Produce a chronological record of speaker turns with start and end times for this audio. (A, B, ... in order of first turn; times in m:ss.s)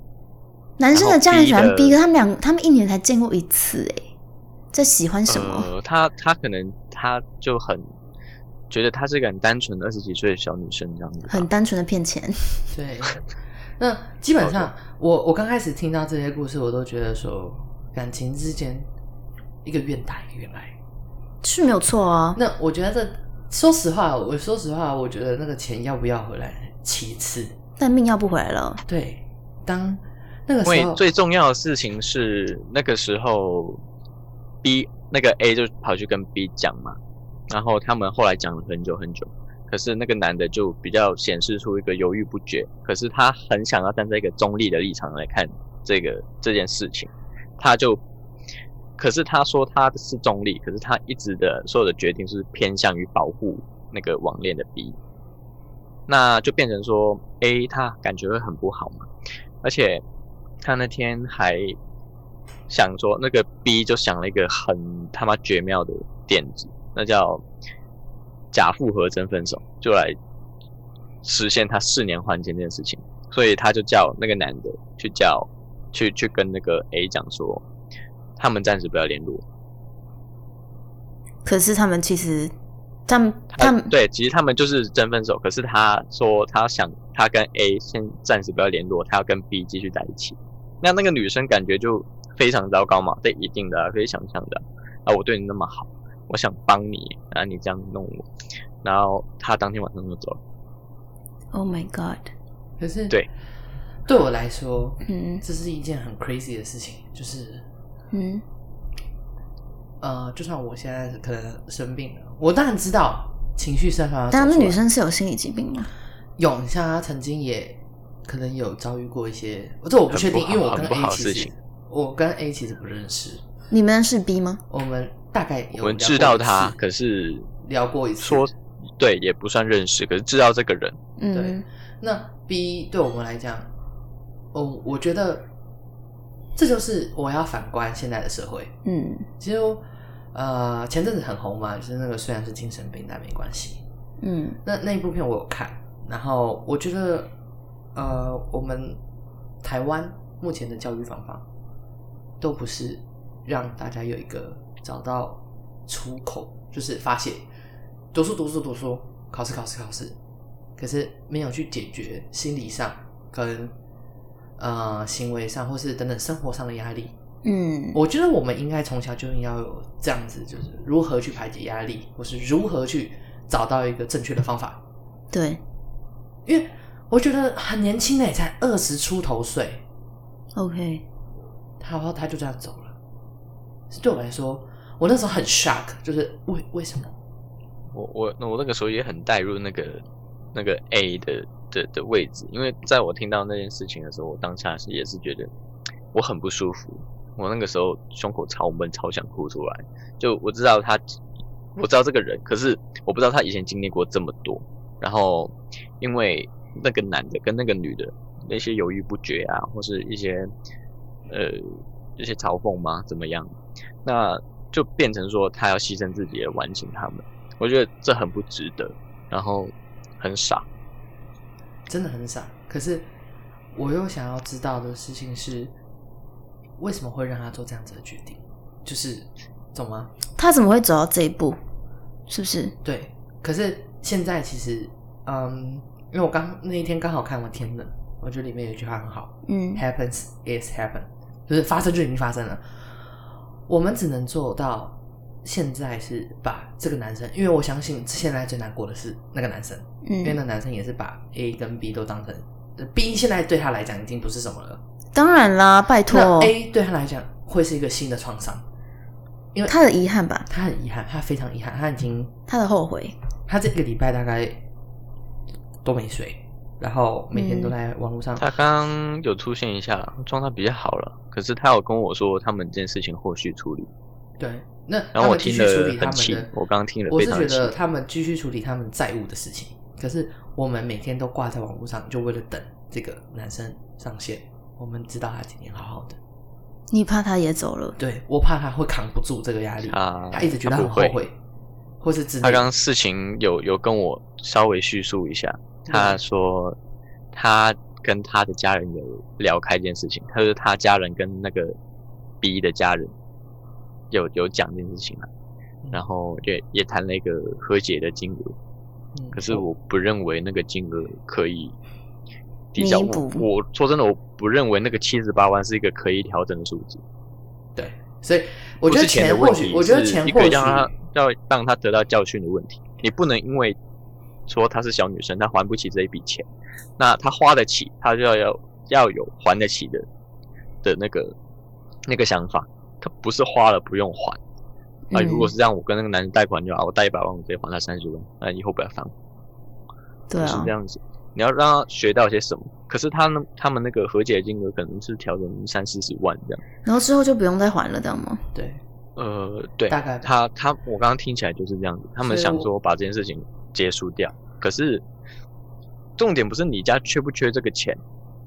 0:00.8-0:04.1 A
0:00.9-0:02.0 B
0:04.7-0:05.7 A
0:05.3-0:07.8 B
0:08.7-0:11.5 B
0:11.3-0:12.7 A
0:12.7-0:13.2 C
0:13.8-0:18.9 C
0:14.4-0:14.7 B
0:19.6-0:20.7 C
0:21.4-0:22.4 A
0:22.4-0:27.6 C
0:27.8-0:28.8 A
0:28.9-0:31.0 C
0:30.6-0:33.8 B
0:34.6-0:48.0 B
0:49.0-0:55.0 B
0:56.1-0:59.1 B
0:59.6-1:00.0 B
1:00.6-1:01.8 B
1:02.7-1:07.4 B
1:08.5-1:10.2 B
1:11.2-1:17.6 B
1:18.4-1:19.4 B
1:21.4-1:22.5 A
1:23.1-1:23.9 A
1:23.5-1:38.2 B
1:38.8-1:40.4 B
1:41.5-1:42.3 A
1:42.8-1:43.2 C
1:44.1-1:47.6 C
1:45.0-1:45.4 A
1:48.1-1:48.4 A
1:50.0-1:54.8 C
1:54.3-1:55.9 A
1:56.4-2:03.4 C
2:00.1-2:01.5 B
2:03.7-2:04.6 A
2:04.7-2:06.8 C
2:05.8-2:07.5 B
2:07.6-2:08.5 C
2:08.2-2:11.0 B
2:11.2-2:11.6 A
2:11.3-2:13.7 C
2:14.5-2:15.5 C
2:16.6-2:18.7 C
2:18.8-2:19.3 A
2:19.4-2:23.8 C
2:24.2-2:24.6 A
2:24.6-2:27.3 C
2:28.0-2:29.0 C
2:29.6-2:31.4 C
2:32.4-2:37.4 C
2:38.1-2:40.2 C
2:40.8-2:43.7 C
2:44.6-2:47.1 C
2:47.4-2:48.0 A
2:47.9-2:54.8 C
2:55.3-2:55.6 A
2:56.5-2:59.8 C
3:00.6-3:01.0 A
3:01.8-3:03.0 C
3:03.9-3:07.1 C
3:07.9-3:10.0 B
3:10.5-3:15.5 B
3:16.1-3:21.2 B
3:21.8-3:30.5 B
3:31.3-3:33.5 B
3:34.0-3:40.6 B
3:41.9-3:43.1 C
3:43.8-3:45.7 C
3:46.8-3:50.1 C
3:50.4-3:51.6 A
3:52.3-3:52.7 A
3:52.8-4:02.6 C
3:59.5-3:59.8 A
4:03.7-4:14.8 C
4:10.0-4:10.4 A
4:15.1-4:16.5 A
4:16.1-4:18.6 C
4:19.7-4:20.5 A
4:20.5-4:22.3 C
4:22.5-4:23.2 A
4:23.5-4:24.6 C
4:25.8-4:28.5 C
4:27.4-4:27.7 A
4:28.4-4:33.9 B
4:34.4-4:36.5 C
4:35.2-4:37.7 B
4:37.1-4:46.2 C
4:46.9-4:48.0 A
4:48.0-4:51.4 C
4:49.9-4:51.2 B
4:52.0-4:52.7 C
4:52.4-4:56.8 B
4:55.9-4:56.2 C
4:57.3-5:01.8 B
5:02.4-5:03.1 B
5:04.1-5:05.3 B
5:05.9-5:08.6 B
5:09.2-5:09.6 C
5:09.3-5:11.8 B
5:12.7-5:17.0 B
5:12.8-5:13.5 A
5:17.8-5:20.9 C
5:18.9-5:23.8 B
5:24.5-5:26.5 B
5:27.0-5:30.1 B
5:30.8-5:31.4 B
5:32.1-5:34.4 B
5:35.1-5:35.5 A
5:35.1-5:39.1 B
5:40.3-5:40.7 A
5:40.4-5:46.6 B
5:46.8-5:48.4 A
5:48.5-5:48.8 C
5:49.2-5:55.0 B
5:49.9-5:50.3 C
5:52.2-5:52.7 C
5:56.2-5:58.0 B